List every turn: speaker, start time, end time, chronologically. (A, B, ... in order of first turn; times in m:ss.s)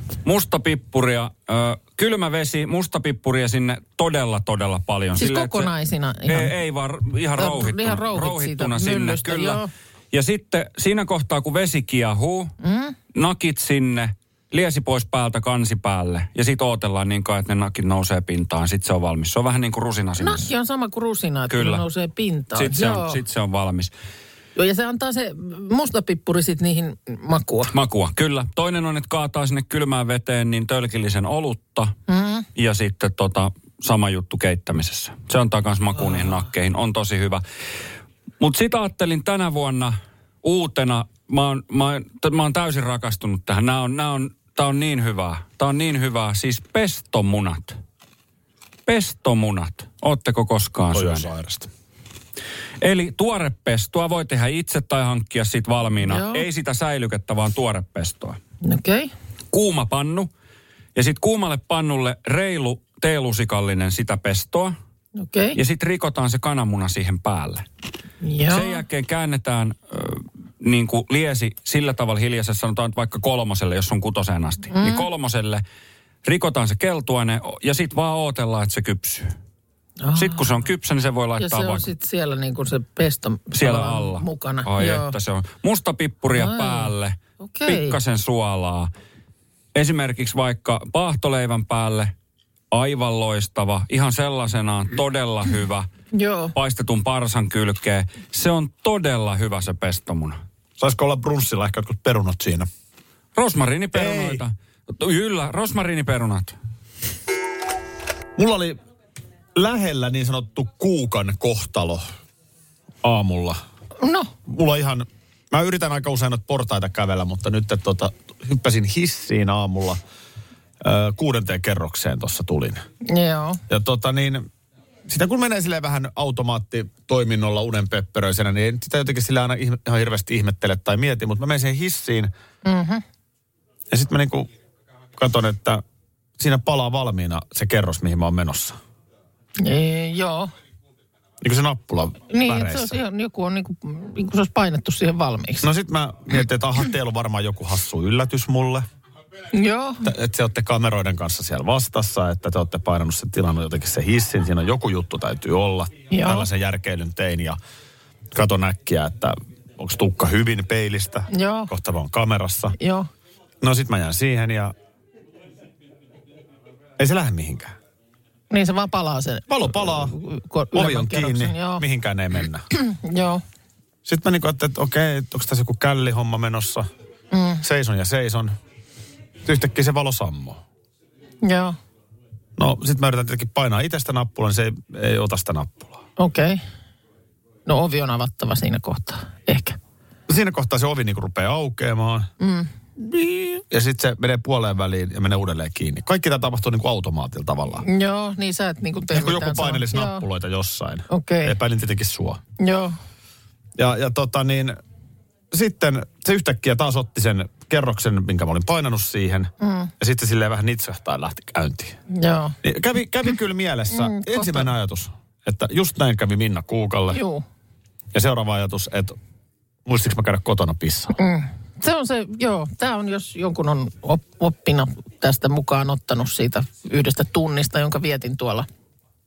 0:00.2-0:05.7 A
0:05.2-0:06.5 B
0:06.3-0:12.5 A
0:07.4-0:09.7 B
0:12.6-0:13.0 B
0:13.1-0:20.4 A
0:20.2-0:23.2 B
0:21.5-0:21.8 A
0:22.6-0:23.9 A
0:24.6-0:27.7 B
0:27.7-0:31.9 A
0:32.1-0:32.5 B
0:32.6-0:37.4 A
0:38.4-0:47.8 A
0:48.9-0:51.3 A
0:50.9-0:51.7 C
0:52.8-0:58.4 A
0:56.0-0:56.4 B
0:58.6-0:59.1 B
0:59.5-1:00.3 A
1:00.9-1:04.8 A
1:05.2-1:05.6 B
1:05.6-1:07.6 A
1:08.2-1:08.8 B
1:08.5-1:15.6 A
1:14.7-1:15.1 B
1:16.2-1:19.3 A
1:20.0-1:20.4 B
1:20.2-1:21.9 A
1:21.4-1:25.1 B
1:23.5-1:27.1 A
1:26.4-1:28.0 B
1:27.6-1:28.9 A
1:29.8-1:32.1 A
1:32.7-1:35.9 A
1:36.1-1:36.5 B
1:36.5-1:40.4 A
1:40.8-1:42.7 C
1:43.4-1:46.6 A
1:43.9-1:44.4 C
1:48.4-1:48.8 C
1:49.6-1:52.0 C
1:53.0-1:53.6 C
1:54.0-1:54.3 B
1:54.5-2:00.0 C
2:00.8-2:02.8 C
2:03.1-2:03.6 B
2:03.7-2:04.5 C
2:05.1-2:12.3 C
2:12.6-2:13.0 B
2:13.9-2:14.5 C
2:15.2-2:15.8 C
2:16.4-2:18.8 C
2:19.6-2:20.5 B
2:21.4-2:23.0 C
2:22.3-2:25.7 B
2:25.6-2:28.8 C
2:29.5-2:30.1 B
2:30.0-2:37.6 C
2:36.1-2:36.5 B
2:38.3-2:42.8 C
2:41.3-2:41.7 B
2:42.8-2:43.1 B
2:43.6-2:44.7 C
2:47.0-2:47.8 C
2:48.5-2:51.8 B
2:49.5-2:50.2 C
2:50.7-2:52.6 C
2:52.7-2:53.4 B
2:54.0-2:56.9 C
2:57.3-2:57.6 B
2:57.6-2:58.6 C
2:59.4-3:00.6 C
3:01.4-3:01.8 B
3:02.6-3:06.0 C
3:06.2-3:06.6 B
3:07.6-3:09.8 B
3:10.3-3:12.3 C
3:12.4-3:12.7 B
3:13.0-3:17.8 C
3:17.8-3:20.2 B
3:19.1-3:22.4 C
3:21.1-3:21.6 B
3:22.6-3:23.0 B
3:23.8-3:24.8 C
3:25.5-3:32.0 C
3:29.6-3:29.9 B
3:32.1-3:32.6 B
3:32.6-3:37.2 C
3:33.9-3:34.7 B
3:37.1-3:37.4 B
3:38.1-3:39.2 C
3:39.9-3:41.2 C
3:41.2-3:48.7 B